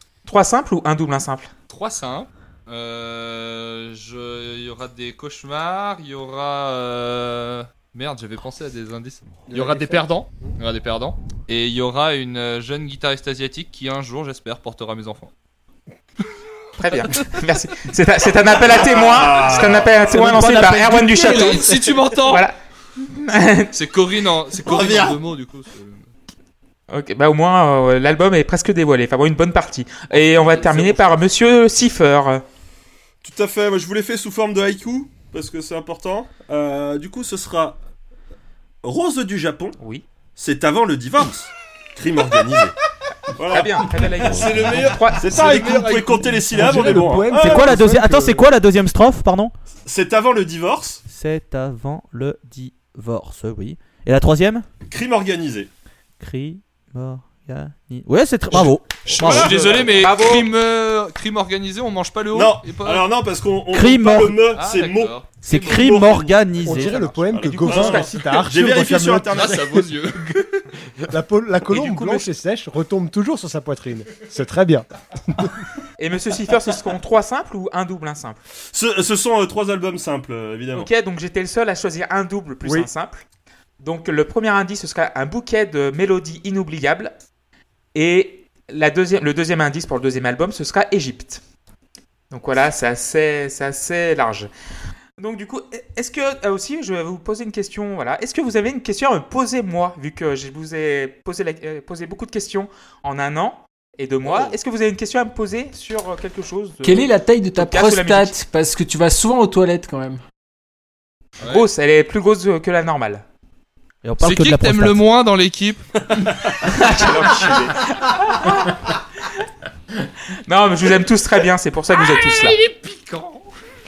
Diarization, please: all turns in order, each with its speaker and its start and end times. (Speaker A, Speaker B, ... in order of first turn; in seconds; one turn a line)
Speaker A: 0.2-1.5
Speaker B: 1.7-15.3
Speaker C: 9.5-10.5
Speaker A: 16.8-22.6
Speaker D: 18.7-20.1
Speaker E: 20.1-21.7
Speaker B: 21.1-22.4
Speaker A: 23.1-23.7
Speaker B: 23.7-26.1
Speaker D: 24.6-25.2
Speaker A: 26.9-32.4
Speaker D: 30.6-30.9
Speaker D: 33.2-37.8
Speaker D: 38.8-39.8
Speaker A: 39.8-40.0
Speaker D: 40.4-42.8
Speaker D: 43.4-47.8
Speaker A: 43.5-45.8
Speaker B: 44.2-46.4
Speaker F: 46.5-48.4
Speaker C: 46.6-47.2
Speaker E: 47.4-49.5
Speaker D: 49.9-51.0
Speaker E: 51.1-54.7
Speaker D: 54.9-55.7
Speaker E: 56.2-59.6
Speaker D: 58.5-60.0
Speaker B: 59.1-63.0
Speaker A: 59.9-60.5
Speaker D: 62.3-66.8
Speaker E: 63.7-64.4
Speaker B: 64.6-66.0
Speaker E: 65.5-67.3
Speaker C: 66.6-70.4
Speaker A: 66.8-68.4
Speaker D: 67.3-69.7
Speaker B: 69.3-70.7
Speaker C: 71.1-75.7
Speaker B: 71.7-72.3
Speaker A: 76.0-78.4
Speaker D: 78.7-80.9
Speaker A: 80.7-83.2
Speaker A: 83.8-87.1
Speaker A: 87.9-91.4
Speaker A: 92.3-94.5
Speaker A: 95.2-108.3
Speaker F: 106.8-110.2
Speaker A: 111.4-113.2
Speaker E: 114.0-115.0
Speaker B: 114.2-116.1
Speaker A: 116.6-119.0
Speaker A: 120.5-122.6
Speaker B: 121.9-123.5